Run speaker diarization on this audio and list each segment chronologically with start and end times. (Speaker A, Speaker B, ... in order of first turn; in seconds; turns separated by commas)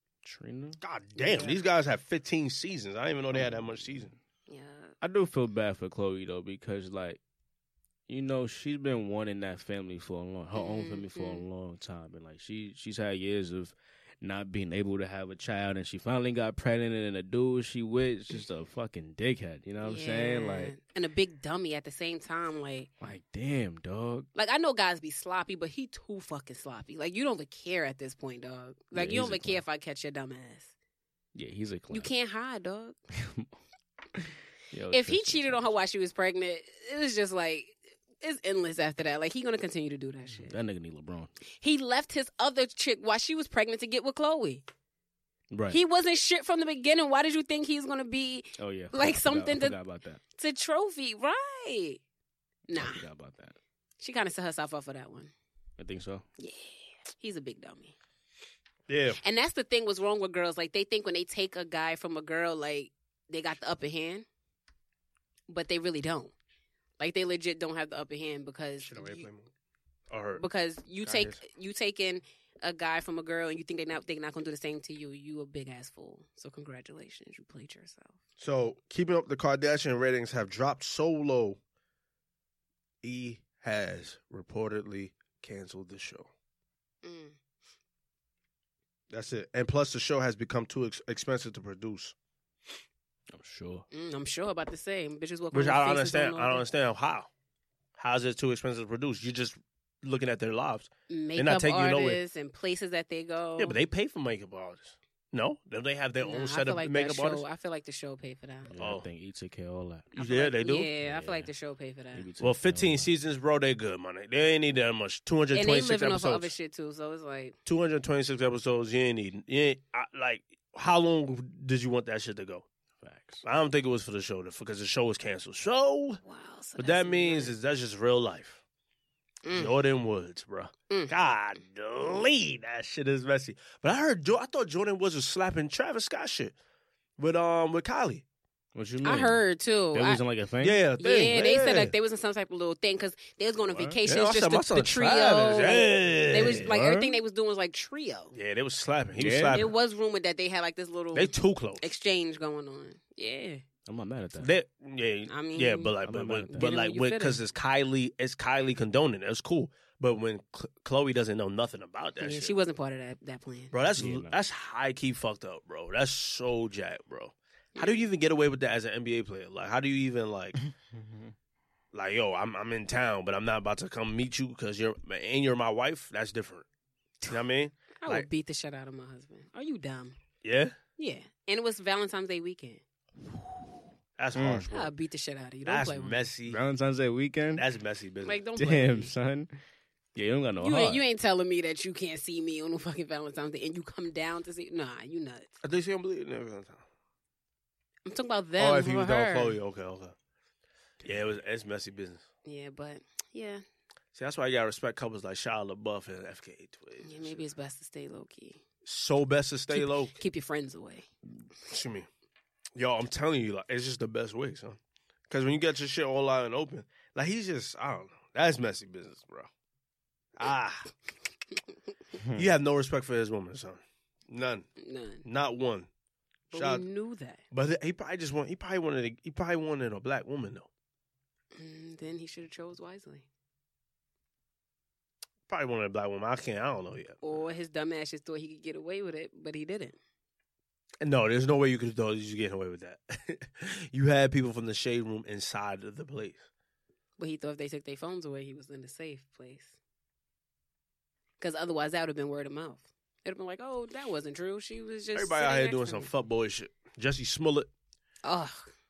Speaker A: 0.2-0.8, Speaker B: 0.8-4.1, Speaker C: 1.2-1.6, Speaker A: 3.4-4.1, Speaker C: 4.5-4.9, Speaker A: 5.0-7.2, Speaker A: 8.1-20.7, Speaker C: 10.6-11.4, Speaker C: 19.8-22.9, Speaker A: 23.0-24.3, Speaker C: 24.4-30.7, Speaker A: 28.9-29.6, Speaker A: 31.4-32.1, Speaker C: 31.9-33.0, Speaker A: 33.2-33.5, Speaker A: 34.2-35.8, Speaker C: 34.9-40.5, Speaker A: 40.4-41.3, Speaker C: 41.6-44.6, Speaker A: 45.5-45.8, Speaker C: 45.7-49.8, Speaker A: 48.6-50.2, Speaker C: 50.4-52.0, Speaker C: 52.7-53.0, Speaker A: 52.7-53.6, Speaker C: 54.0-55.3, Speaker A: 55.8-56.2, Speaker C: 56.4-58.0, Speaker B: 58.9-59.2, Speaker C: 59.2-64.3, Speaker C: 65.5-66.3, Speaker C: 67.0-69.3, Speaker B: 68.8-69.5, Speaker B: 70.1-70.4, Speaker C: 70.4-78.2, Speaker B: 71.0-71.4, Speaker B: 78.4-81.6, Speaker B: 83.0-86.3, Speaker C: 87.0-87.4, Speaker B: 89.1-92.2, Speaker A: 93.3-93.9, Speaker C: 93.9-96.7, Speaker B: 95.5-97.3, Speaker B: 98.0-102.2, Speaker C: 101.1-103.8, Speaker B: 103.6-107.4, Speaker C: 106.2-108.7, Speaker A: 108.7-110.2, Speaker B: 108.8-109.1, Speaker C: 110.2-112.3, Speaker B: 110.2-110.9, Speaker A: 111.0-111.5, Speaker A: 112.1-113.1, Speaker B: 112.4-116.5, Speaker C: 115.5-117.6, Speaker B: 117.7-122.7, Speaker A: 123.0-123.4, Speaker B: 123.4-126.2, Speaker C: 126.2-127.5, Speaker B: 126.8-128.6, Speaker C: 129.4-129.8, Speaker B: 129.5-136.6, Speaker B: 137.2-138.2, Speaker A: 138.8-140.8, Speaker C: 139.0-140.2, Speaker B: 140.6-141.9, Speaker C: 141.0-148.3, Speaker A: 143.6-144.0, Speaker B: 144.0-146.7, Speaker A: 146.3-147.2, Speaker B: 148.3-149.7, Speaker A: 149.2-149.7, Speaker C: 149.5-153.6, Speaker B: 151.1-151.8, Speaker A: 153.9-154.6, Speaker B: 154.4-162.6, Speaker C: 155.3-156.0, Speaker A: 156.1-156.7, Speaker C: 156.5-157.4, Speaker C: 162.2-163.8, Speaker B: 163.7-170.6, Speaker A: 164.0-164.4, Speaker C: 167.8-168.0, Speaker A: 170.9-171.3, Speaker B: 171.9-176.7, Speaker B: 177.3-178.3, Speaker C: 178.0-180.2, Speaker B: 180.4-180.8, Speaker C: 181.0-182.8, Speaker B: 184.2-184.9, Speaker A: 184.3-184.7, Speaker C: 184.7-186.2, Speaker B: 185.7-186.6, Speaker A: 186.5-187.7, Speaker B: 187.6-188.4, Speaker C: 188.2-189.1, Speaker A: 188.6-189.6, Speaker A: 190.2-191.0, Speaker C: 190.6-195.5, Speaker B: 195.6-196.8, Speaker C: 198.1-199.6, Speaker B: 198.6-200.2, Speaker A: 201.0-201.3, Speaker B: 201.0-202.2, Speaker C: 202.4-203.6, Speaker B: 204.2-207.4, Speaker C: 207.0-208.6, Speaker B: 208.8-210.2, Speaker C: 209.7-211.1, Speaker B: 211.7-212.1, Speaker B: 212.8-219.5, Speaker B: 220.3-220.9, Speaker A: 222.2-222.5, Speaker B: 222.3-224.7, Speaker C: 224.8-225.2, Speaker B: 225.2-225.9, Speaker B: 226.5-226.9, Speaker C: 226.5-227.4, Speaker B: 227.5-230.7, Speaker C: 231.6-233.3, Speaker B: 235.5-237.2, Speaker C: 237.2-240.0, Speaker B: 241.0-246.4, Speaker C: 247.2-249.8, Speaker C: 251.4-256.1, Speaker B: 255.1-257.7, Speaker C: 258.2-258.7